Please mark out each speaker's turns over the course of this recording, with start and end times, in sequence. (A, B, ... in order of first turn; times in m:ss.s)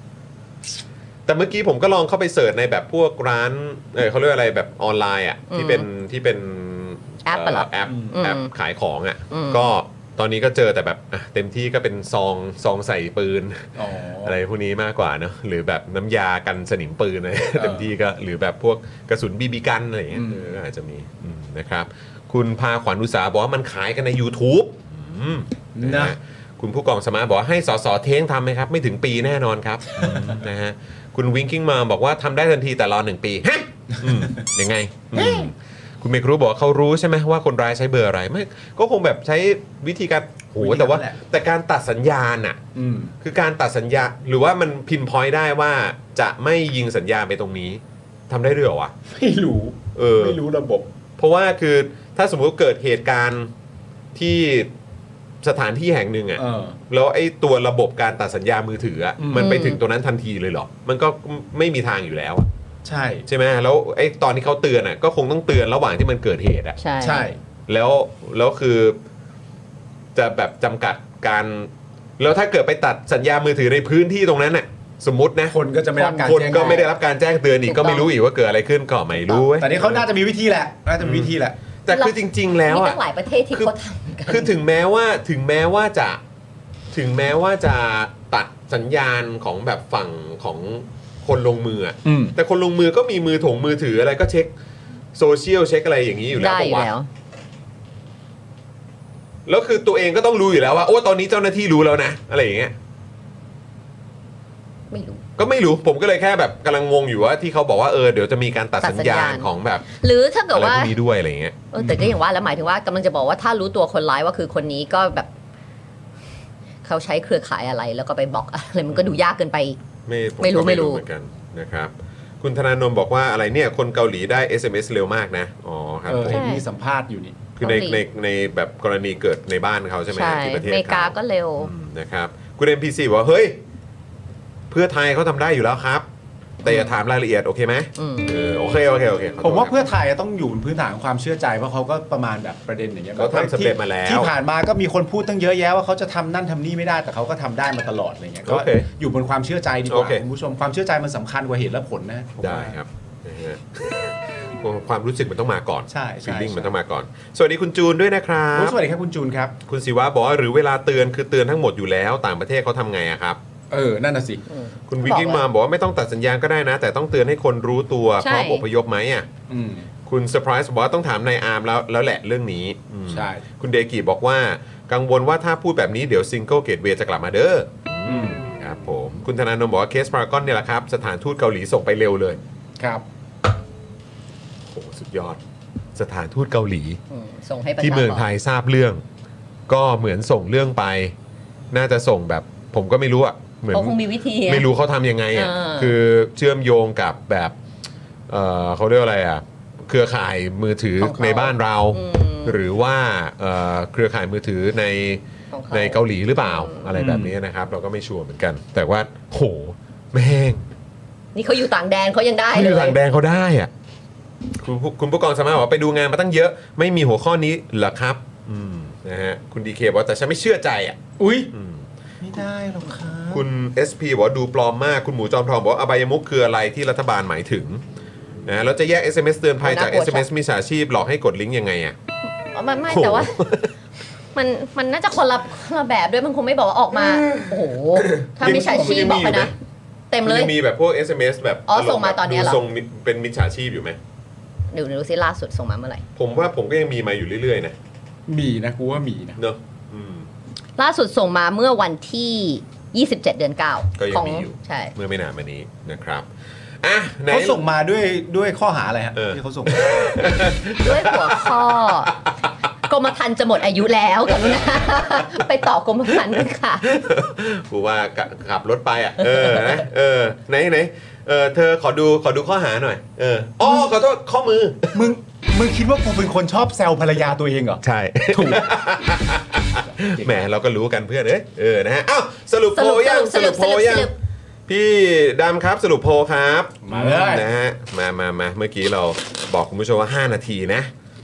0:01.3-0:42.6 A
0:05.5-0:05.9 B
0:07.3-0:08.5 B
0:07.9-0:08.1 C
0:09.3-0:09.7 B
0:13.8-0:14.4 C
0:17.6-0:17.9 C
0:20.1-0:20.6 C
0:25.8-0:26.2 C
0:30.0-0:30.3 C
0:35.1-0:35.5 C
0:40.6-0:41.2 C
0:42.8-0:43.1 C
0:43.2-0:48.9 A
0:49.1-0:50.9 C
0:50.0-0:50.4 A
0:51.2-0:53.5 A
0:54.2-0:54.7 A
0:55.4-1:02.5 A
0:56.4-0:56.8 C
0:59.2-0:59.5 C
0:59.4-0:59.8 B
1:02.8-1:03.2 C
1:03.3-1:06.8 A
1:06.8-1:07.3 B
1:07.0-1:07.4 C
1:07.7-1:09.0 A
1:10.2-1:15.6 A
1:15.5-1:16.8 C
1:16.0-1:16.8 B
1:16.2-1:20.1 A
1:17.7-1:18.1 B
1:19.6-1:21.6 C
1:21.0-1:21.3 A
1:21.9-1:23.0 A
1:21.9-1:24.5 B
1:24.3-1:26.2 A
1:26.9-1:34.5 A
1:32.0-1:32.4 C
1:35.2-1:36.9 A
1:36.4-1:37.1 B
1:39.5-1:42.7 A
1:44.9-1:45.2 B
1:45.4-1:49.9 A
1:48.8-1:50.9 B
1:50.5-1:52.1 A
1:51.7-1:55.3 B
1:51.8-1:52.1 C
1:56.8-1:59.8 B
1:58.9-1:59.2 A
2:00.1-2:06.4 A
2:00.4-2:01.0 B
2:06.1-2:07.4 C
2:06.3-2:06.6 B
2:07.6-2:13.6 A
2:07.6-2:08.0 B
2:10.1-2:11.7 B
2:14.7-2:16.0 A
2:16.6-2:19.9 A
2:18.0-2:18.4 B
2:19.4-2:32.8 C
2:23.2-2:24.3 A
2:28.5-2:28.9 A
2:29.9-2:30.2 A
2:32.4-2:38.8 A
2:35.9-2:36.7 C
2:38.5-2:39.6 C
2:39.7-2:43.4 A
2:43.7-2:44.4 C
2:44.5-2:45.4 B
2:44.9-2:49.3 A
2:48.2-2:48.6 B
2:49.5-2:49.9 C
2:50.1-3:02.4 A
2:53.1-2:53.4 C
2:58.1-2:58.4 C
3:02.8-3:03.0 C
3:04.7-3:05.4 A
3:06.0-3:07.0 A
3:07.1-3:08.3 B
3:07.8-3:09.0 A
3:09.7-3:11.1 A
3:11.7-3:17.6 A
3:13.7-3:14.7 B
3:15.3-3:15.9 B
3:18.3-3:30.6 A
3:21.0-3:22.6 B
3:25.5-3:26.9 B
3:26.9-3:27.4 C
3:31.4-3:33.0 B
3:32.5-3:33.7 A
3:34.6-3:41.0 A
3:41.2-3:41.5 C
3:41.5-3:41.8 A
3:42.2-3:43.4 C
3:43.3-3:47.8 A
3:48.5-3:52.0 A
3:49.6-3:50.3 B
3:52.5-3:53.3 B
3:52.9-3:53.7 A
3:54.4-3:59.5 B
3:56.9-3:59.5 A
3:58.5-3:59.2 C
4:00.1-4:00.5 B
4:00.2-4:04.0 A
4:01.7-4:02.6 B
4:04.7-4:06.0 B
4:06.2-4:07.7 A
4:08.3-4:09.4 C
4:09.4-4:10.3 A
4:10.8-4:14.9 B
4:14.0-4:16.3 A
4:16.8-4:17.6 A
4:17.3-4:20.2 C
4:19.2-4:22.0 A
4:20.8-4:22.2 B
4:22.9-4:26.9 B
4:26.9-4:35.1 A
4:29.2-4:29.8 B
4:34.9-4:38.7 C
4:37.8-4:44.1 A
4:42.8-4:44.1 B
4:44.7-4:50.9 A
4:46.8-4:47.5 C